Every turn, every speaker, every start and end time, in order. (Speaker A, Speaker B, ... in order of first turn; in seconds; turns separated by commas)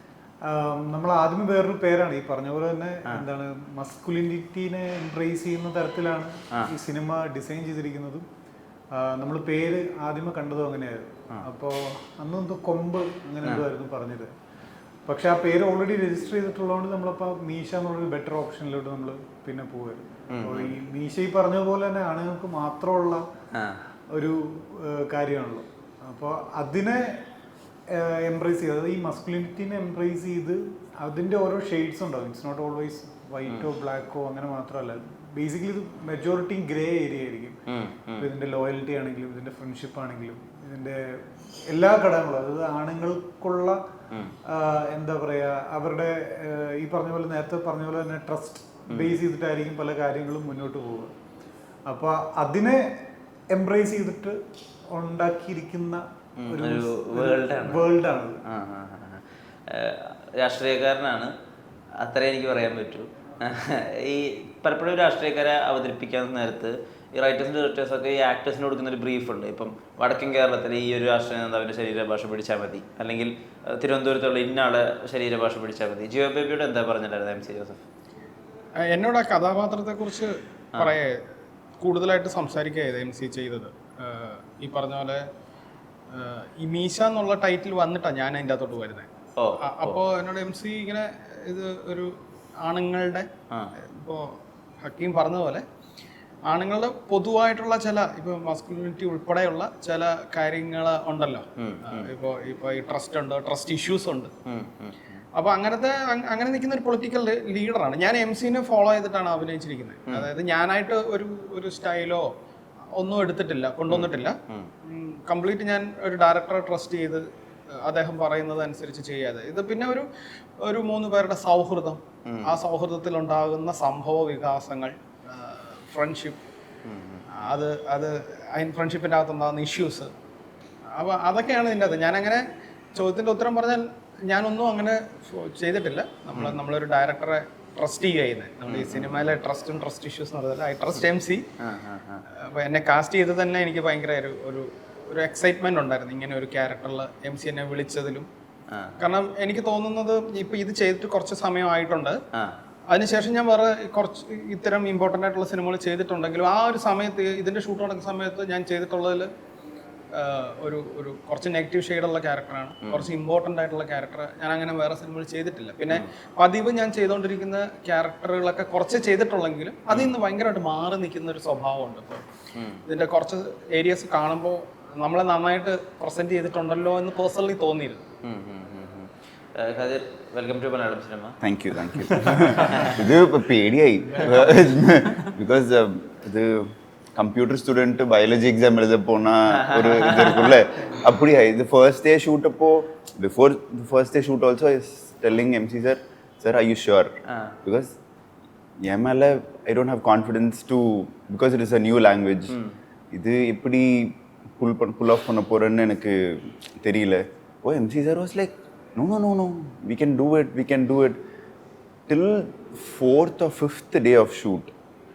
Speaker A: 0.4-8.3, Speaker A: 8.9-14.3, Speaker A: 15.1-23.2, Speaker B: 20.3-20.8, Speaker A: 24.1-27.2, Speaker A: 27.9-37.6, Speaker B: 37.7-38.3, Speaker A: 38.2-43.8, Speaker A: 44.4-51.1, Speaker B: 48.9-49.2, Speaker A: 51.9-52.9, Speaker A: 53.5-54.4, Speaker A: 54.9-58.4, Speaker B: 56.4-57.9, Speaker B: 58.4-61.3, Speaker B: 62.0-77.8, Speaker C: 78.9-81.2, Speaker C: 81.8-85.2, Speaker C: 86.1-89.1, Speaker B: 89.3-90.0, Speaker C: 89.6-92.1, Speaker C: 92.6-93.3, Speaker C: 93.8-94.3, Speaker C: 94.8-95.6, Speaker C: 96.5-104.3, Speaker B: 101.6-102.1, Speaker B: 104.5-105.2, Speaker C: 105.3-112.3, Speaker C: 112.9-117.2, Speaker B: 113.9-114.7, Speaker C: 117.8-120.1, Speaker C: 120.6-126.4, Speaker B: 122.2-122.5, Speaker B: 126.8-127.3, Speaker C: 127.4-130.1, Speaker C: 130.9-132.4, Speaker C: 132.9-141.4, Speaker B: 138.7-139.3, Speaker B: 141.6-142.2, Speaker C: 142.4-148.3, Speaker B: 148.7-149.0, Speaker C: 149.0-152.2, Speaker C: 152.9-159.3, Speaker C: 160.1-172.2, Speaker B: 172.5-172.8, Speaker C: 172.8-178.0, Speaker B: 178.2-181.4, Speaker D: 181.4-197.1, Speaker B: 182.0-183.0, Speaker B: 189.5-190.6, Speaker B: 197.3-197.5, Speaker D: 197.6-197.9, Speaker D: 198.8-202.5, Speaker B: 202.5-202.8, Speaker D: 203.1-211.2, Speaker D: 212.1-214.7